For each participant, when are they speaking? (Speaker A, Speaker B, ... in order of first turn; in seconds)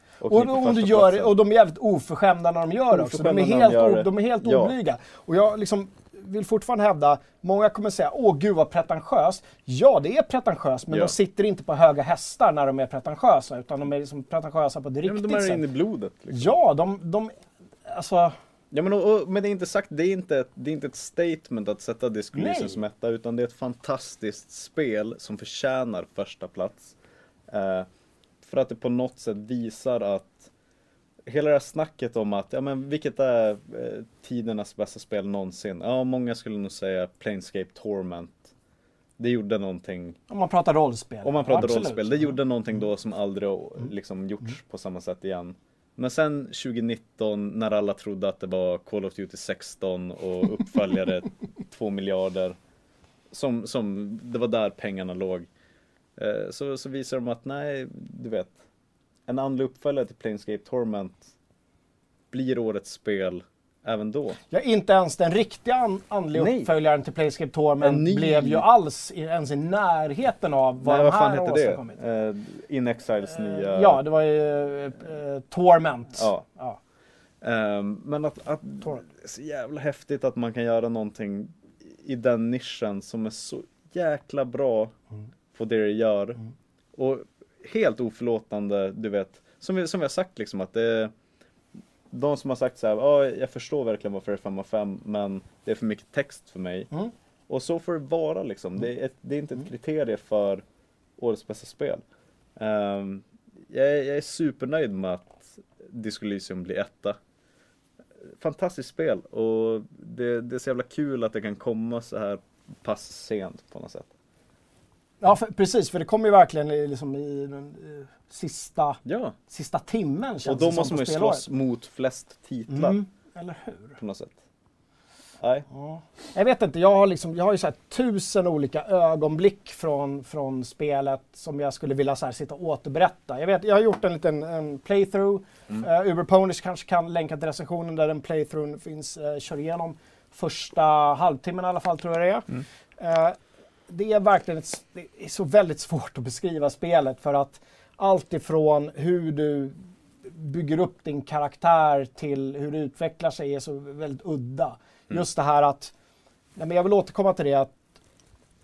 Speaker A: 0.2-1.3, 2.9-4.8, 10.9-11.2, 15.0-16.6, 18.7-26.9, 27.5-27.9, 28.4-30.5, 31.3-38.5, 39.2-40.2, 41.2-52.6, 53.3-55.5, 56.2-58.6, 59.3-61.3, 62.3-64.4, 66.3-66.7, 67.8-68.7, 70.8-74.0, 76.2-76.5, 77.4-85.0, 85.5-86.4, 87.0-91.1, 92.1-96.9, 97.5-100.6, 101.2-102.0, 102.6-107.2, 108.2-114.1, 119.1-119.4, 120.4-123.0, 124.0-124.4, 125.4-125.7
Speaker B: 0.3-15.6, 16.3-17.3, 17.9-18.4, 22.3-22.8, 40.3-42.4, 64.5-72.0, 73.3-76.8, 115.2-121.5, 122.7-124.0, 125.7-142.5, 143.0-143.4, 143.9-155.9, 156.6-157.7